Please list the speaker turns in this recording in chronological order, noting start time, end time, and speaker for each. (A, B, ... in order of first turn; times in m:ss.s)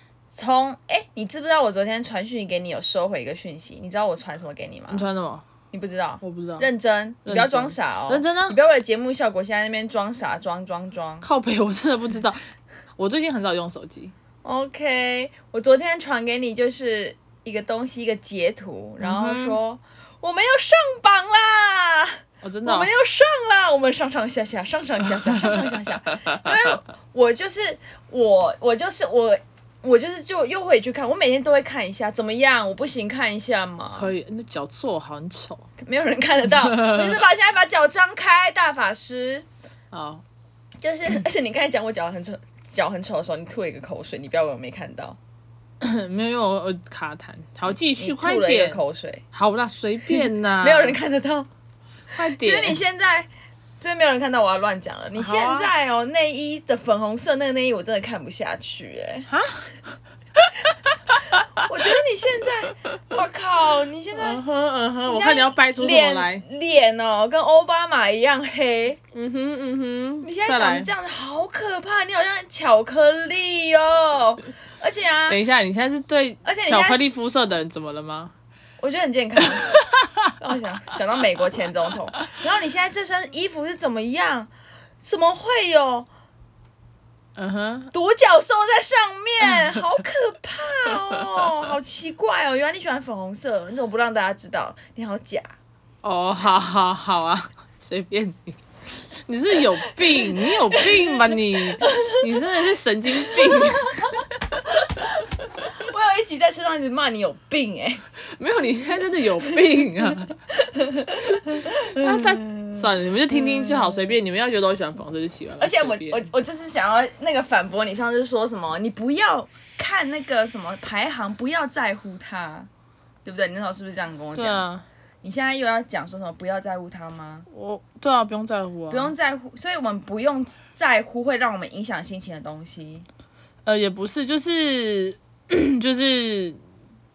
0:00.3-0:05.1 A
0:04.9-0:05.4 B
0:05.7-0:11.2 A
0:06.2-0:06.7 B
0:07.2-0:08.6 B
0:11.2-0:12.4 B
0:13.0-0:14.1 B
0:14.4-0:34.1 A
0:19.0-0:19.6 B
0:22.4-0:22.9 B
0:33.9-0:35.6 B
0:35.8-0:39.4 A
0:36.5-0:37.2 B
0:39.9-0:40.2 B
0:40.8-0:45.2 A
0:45.8-0:48.8 B
0:48.0-0:49.2 A
0:49.3-0:51.0 B
0:50.1-0:51.5 A
0:52.1-0:52.8 B
0:52.2-0:53.3 A
0:53.8-0:59.3 A
0:55.1-0:55.7 B
0:59.3-0:59.7 B
1:01.6-1:04.4 A
1:04.1-1:06.4 B
1:05.1-1:09.0 A
1:09.1-1:10.9 B
1:10.2-1:15.4 A
1:15.3-1:18.3 B
1:16.4-1:17.1 A
1:18.8-1:19.7 A
1:19.4-1:20.3 B
1:20.4-1:24.5 A
1:25.0-1:26.1 A
1:27.4-1:27.9 B
1:27.9-1:35.5 A
1:36.0-1:38.6 B
1:39.1-1:44.2 B
1:39.6-1:42.4 A
1:43.1-1:44.1 A
1:44.8-1:48.0 A
1:48.4-1:50.3 B
1:50.5-1:54.1 A
1:51.9-1:56.3 B
1:55.6-2:02.7 A
2:03.2-2:04.6 A
2:04.3-2:04.8 B
2:05.2-2:07.5 A
2:07.5-2:09.1 B
2:08.9-2:13.0 A
2:13.6-2:16.6 B